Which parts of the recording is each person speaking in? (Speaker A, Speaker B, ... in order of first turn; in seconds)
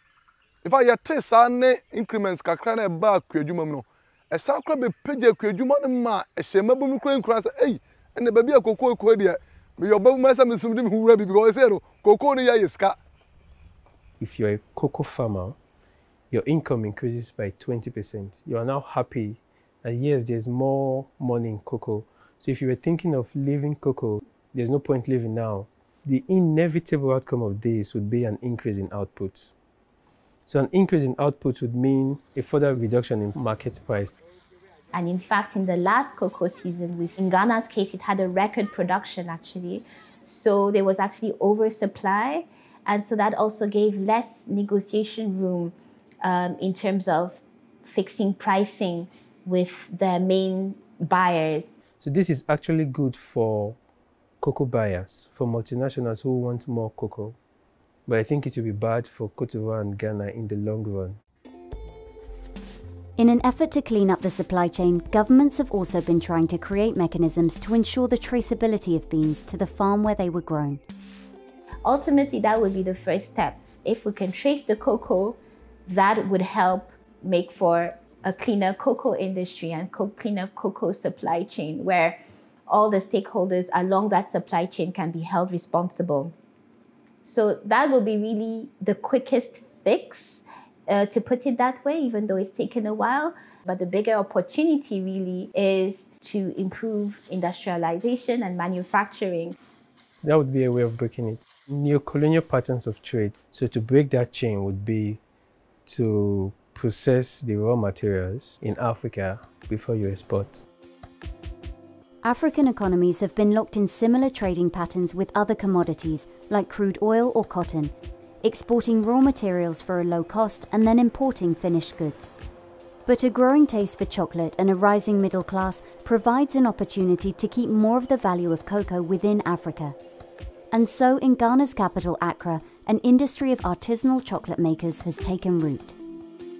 Speaker A: 0.6-13.0
Speaker B: 14.2-15.5, 16.3-29.5, 30.5-34.1, 52.0-53.8, 54.4-57.4, 58.0-61.2, 100.2-105.2, 105.8-110.6
Speaker C: 34.9-51.8, 71.8-86.3, 87.2-99.5
Speaker D: 63.2-70.8, 112.2-122.3, 123.0-129.9, 130.7-135.9